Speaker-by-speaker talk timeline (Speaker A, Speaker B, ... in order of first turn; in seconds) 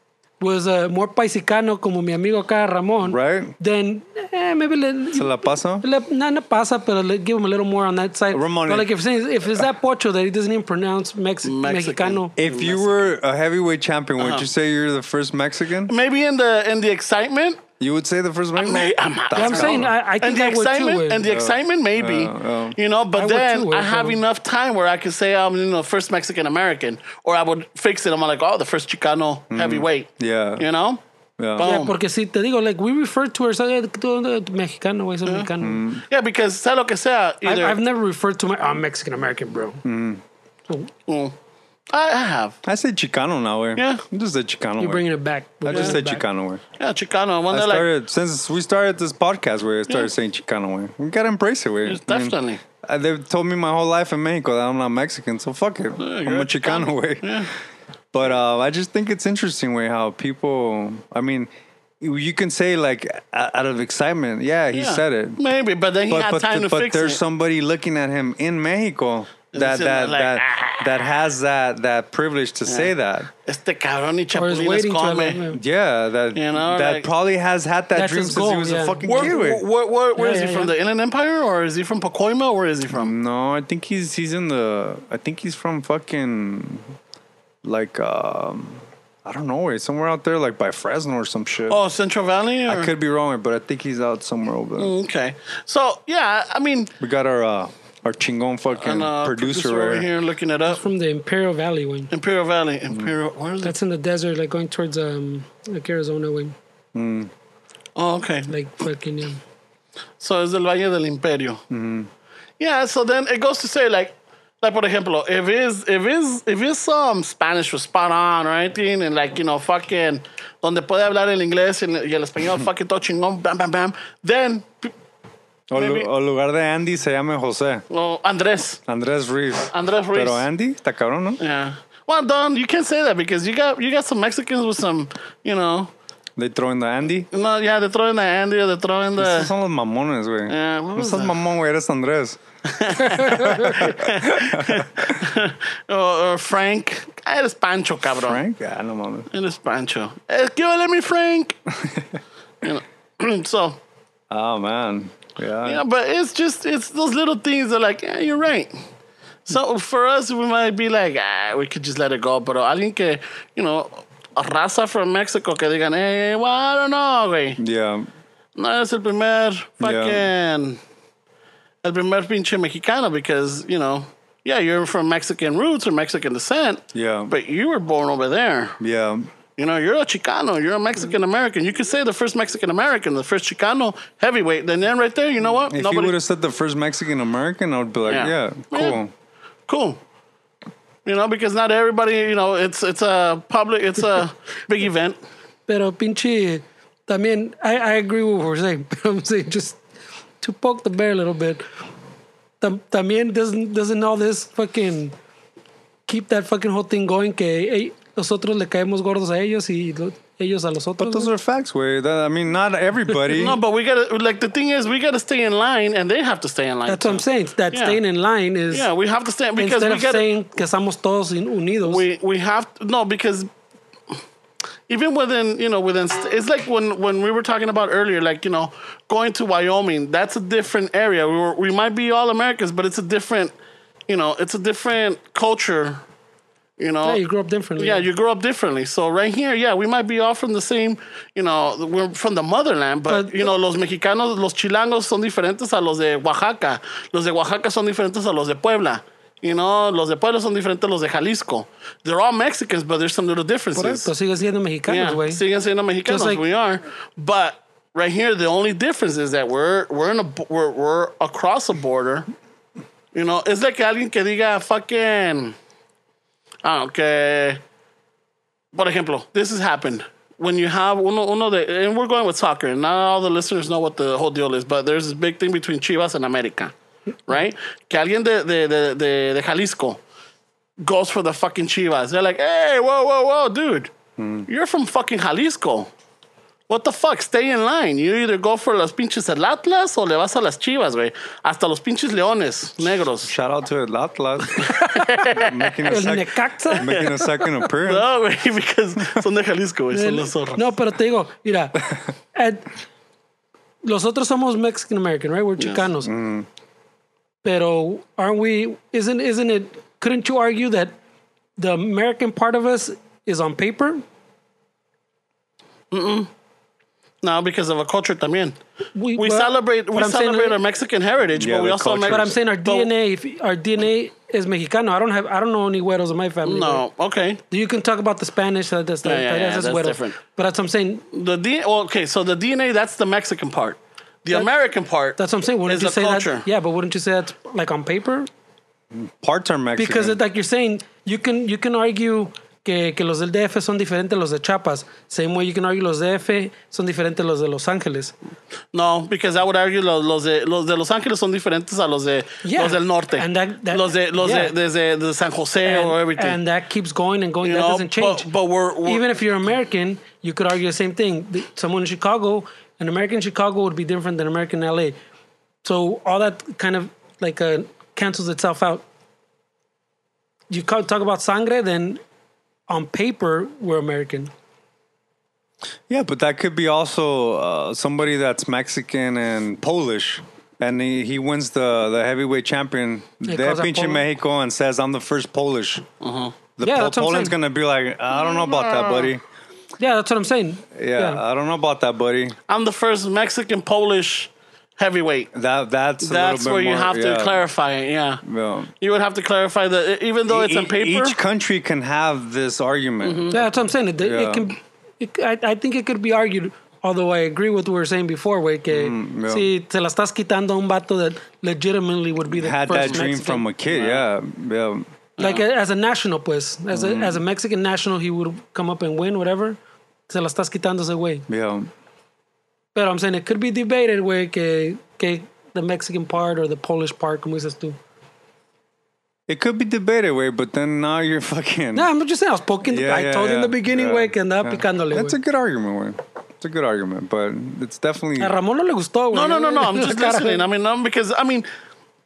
Speaker A: 0.4-12.3, 19.3-21.2, 23.1-24.2, 31.6-35.8, 37.4-39.8, 44.8-46.2, 74.3-75.6, 77.9-79.4, 80.2-80.7, 100.7-102.1, 103.6-106.5, 108.5-109.4, 143.2-143.7, 195.7-199.8, 200.4-201.6, 202.6-205.1, 206.1-211.3, 216.9-218.9, 219.6-222.0, 237.0-238.1, 243.1-243.4, 253.7-255.4, 256.1-256.4, 294.6-297.5, 299.9-302.7, 303.8-306.1, 307.4-310.9, 311.6-314.0, 318.9-320.6, 322.1-326.8, 327.5-331.0, 335.2-338.3, 339.8-348.1, 352.4-354.5, 355.6-358.3, 358.9-364.9, 365.6-368.8, 370.5-372.0, 372.7-374.3, 383.3-384.1, 386.6-387.4, 389.8-391.2, 403.3-413.5, 415.2-421.3, 422.7-427.8, 431.7-435.2, 438.2-440.5
Speaker B: 3.1-3.5, 5.1-5.8, 8.3-8.9, 12.4-15.9, 17.8-19.9, 21.2-22.8, 29.5-30.6, 31.4-31.7, 35.6-36.0, 39.8-40.2, 42.6-45.0, 45.6-46.6, 47.5-57.4, 58.1-61.5, 62.0-65.4, 66.1-73.3, 75.5-79.6, 82.9-86.9, 87.6-91.8, 92.7-94.9, 97.0-100.1, 106.9-107.3, 111.7-112.1, 125.7-127.8, 128.9-131.4, 136.3-137.3, 139.2-142.4, 143.6-145.2, 148.2-149.3, 151.8-152.2, 154.3-155.8, 167.6-168.1, 169.8-170.3, 176.9-177.3, 178.8-179.3, 185.7-189.1, 211.0-213.6, 284.2-284.5, 293.2-294.7, 295.4-298.1, 306.0-306.5, 321.4-322.3, 338.9-340.2, 375.9-385.8, 386.6-389.2, 390.7-392.4, 395.3-397.4, 398.2-398.7, 400.3-404.4, 408.7-409.5, 412.3-414.9, 416.7-417.2, 421.3-421.7, 429.3-431.9, 432.6-438.3
Speaker C: 11.4-12.9, 14.2-14.4, 15.9-17.6, 18.6-31.0, 31.6-31.9, 36.1-37.8, 41.1-41.3, 41.9-42.6, 43.8-44.0, 45.7-46.0, 46.8-47.9, 51.9-52.6, 56.0-57.5, 64.7-67.2, 69.5-71.0, 73.5-75.4, 76.3-77.1, 79.0-83.1, 91.7-92.9, 94.8-96.9, 98.8-100.8, 102.1-103.7, 108.0-108.5, 110.2-111.6, 112.6-124.9, 125.7-126.1, 127.9-128.8, 129.7-130.4, 131.4-135.9, 137.3-139.5, 140.5-141.4, 142.7-148.4, 149.3-151.6, 152.6-153.8, 155.6-158.7, 159.4-167.6, 168.6-170.8, 171.8-178.8, 179.6-186.1, 188.1-189.0, 189.7-190.0, 191.1-195.2, 213.3-218.0, 218.7-220.3, 221.8-223.5, 224.9-233.5, 234.1-236.0, 236.8-237.2, 237.8-254.1, 254.9-262.3, 263.1-265.6, 266.6-267.6, 268.7-276.7, 277.3-280.0, 280.8-283.9, 284.5-285.9, 286.7-293.3, 294.7-295.8, 296.8-297.1, 297.8-300.6, 305.6-305.9, 315.9-316.3, 317.2-318.6, 319.2-322.9, 326.4-327.4, 329.1-330.2, 331.1-336.4, 348.7-356.4, 357.4-359.0, 386.0-386.3, 388.8-389.1, 392.5-395.3, 396.0-398.2, 398.8-401.2, 403.0-403.3, 413.7-414.0, 415.2-415.4, 439.1-441.5